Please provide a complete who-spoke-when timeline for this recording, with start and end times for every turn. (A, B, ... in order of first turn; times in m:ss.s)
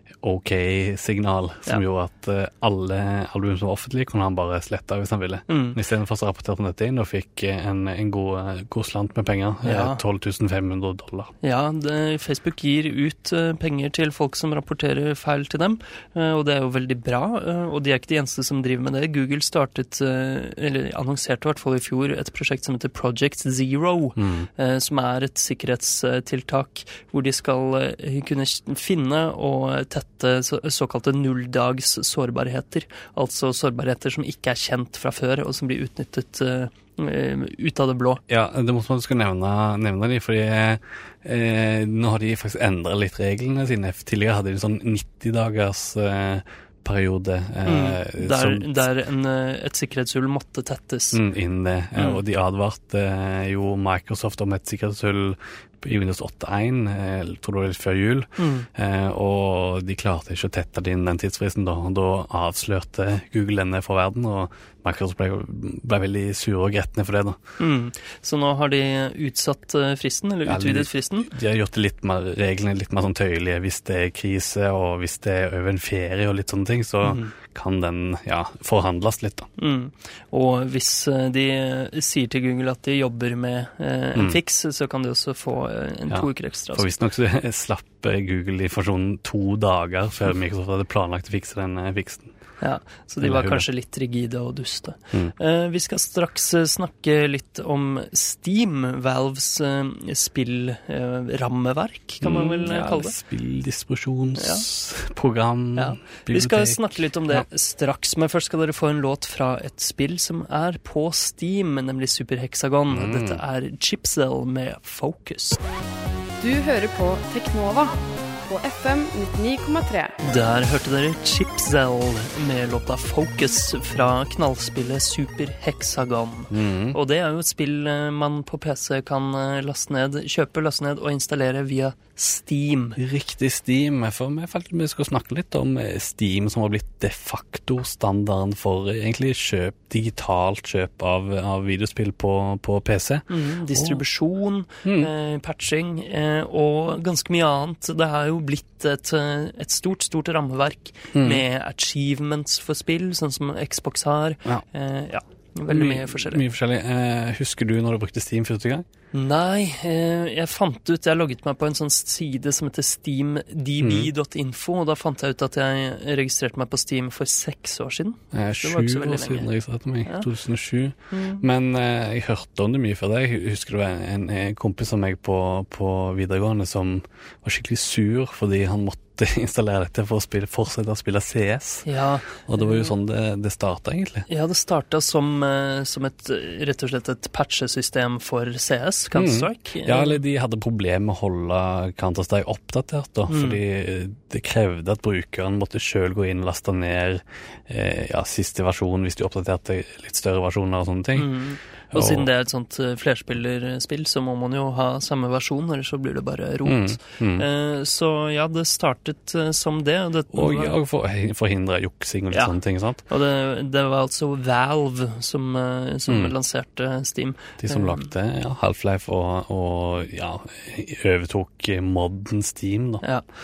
0:00.2-0:11.3 A
0:05.5-0:05.8 B
0:09.6-0:10.0 B
0:11.4-0:38.2 B
0:24.2-0:24.5 A
0:38.3-0:48.8 A
0:47.6-0:51.2 B
0:51.1-1:07.4 A
0:58.4-0:58.7 B
1:07.6-1:11.3 B
1:10.4-1:19.5 A
1:17.0-1:17.3 B
1:19.6-1:26.9 B
1:26.1-1:32.3 A
1:32.6-1:43.1 B
1:33.2-1:33.6 A
1:42.2-1:47.4 A
1:44.4-1:44.6 B
1:45.8-1:55.6 B
1:52.9-1:53.4 A
1:56.4-1:57.9 C
1:58.4-2:00.2 C
2:00.2-2:13.0 B
2:06.5-2:07.0 A
2:13.0-2:24.0 A
2:23.3-2:36.4 B
2:24.8-2:25.1 A
2:31.1-2:31.4 A
2:35.7-2:38.8 A
2:39.1-2:49.5 B
2:43.8-2:44.1 A
2:48.3-3:04.2 A
2:51.1-2:51.4 B
3:01.8-3:02.9 B
3:04.3-3:10.2 B
3:09.1-3:21.3 A
3:13.3-3:13.6 B
3:21.2-3:30.8 B
3:21.9-3:22.3 A
3:26.6-3:27.4 A
3:30.3-3:33.0 A
3:33.0-3:38.1 B
3:36.1-3:36.3 A
3:37.6-3:43.0 A